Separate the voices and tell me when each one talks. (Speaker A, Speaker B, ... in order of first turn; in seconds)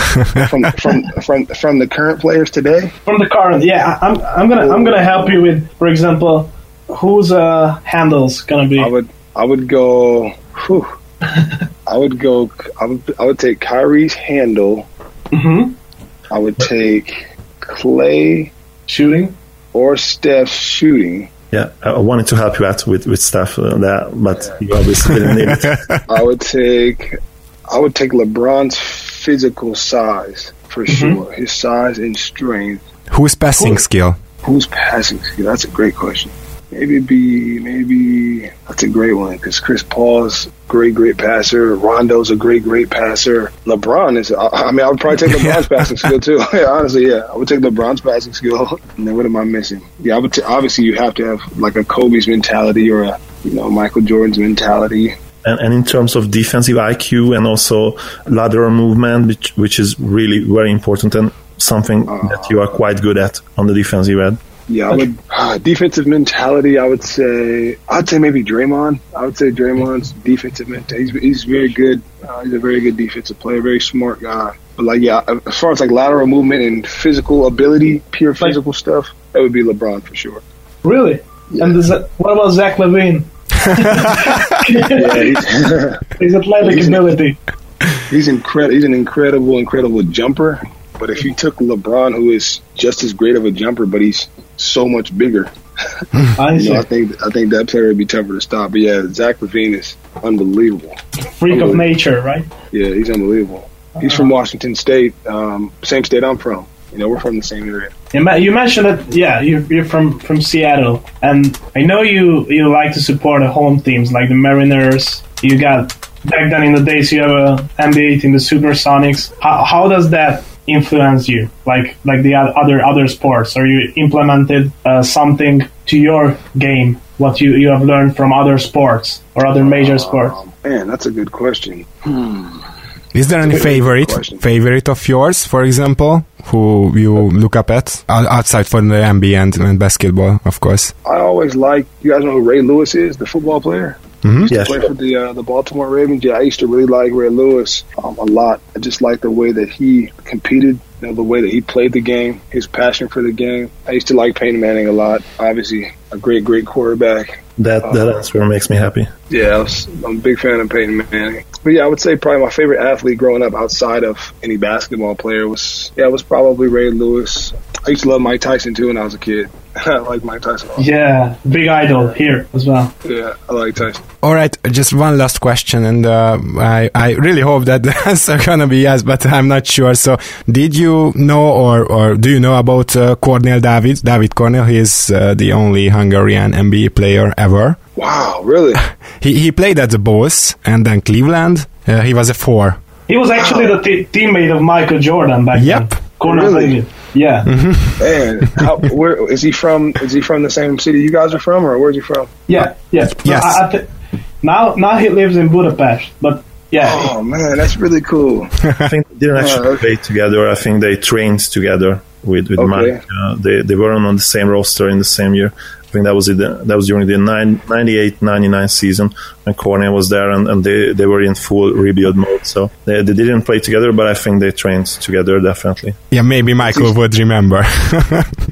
Speaker A: 0.3-2.9, 4.6-5.4, 8.8-10.9, 11.9-14.9, 16.3-18.5, 19.7-21.3, 26.1-27.2, 27.7-32.8, 34.4-55.2, 62.1-62.6, 64.7-80.4, 84.9-86.0, 86.6-87.0, 88.1-95.5, 96.5-101.0, 101.5-101.8, 102.7-107.9, 129.6-132.7, 133.4-134.4, 141.1-158.2, 159.3-170.9, 173.0-174.0, 188.0-188.8, 193.3-193.8, 196.2-196.8, 198.0-202.3, 206.8-208.5, 209.4-209.8, 212.6-213.0, 226.6-226.9
Speaker B: 3.1-8.9, 11.3-11.6, 15.3-15.8, 18.9-19.4, 30.9-31.2, 33.6-33.8, 80.8-85.5, 86.2-87.4, 96.4-96.8, 101.2-102.5, 104.0-104.3, 108.1-130.4, 170.8-172.9, 193.1-197.5, 202.5-203.9, 204.4-207.1
Speaker C: 21.5-25.8, 55.4-64.4, 144.5-144.9, 157.6-159.1, 208.8-226.0
Speaker D: 33.1-34.2, 45.2-46.1, 133.1-140.9, 144.2-144.5, 174.2-187.8, 189.2-192.8, 195.5-195.9, 197.5-198.0, 203.2-203.6, 226.1-228.3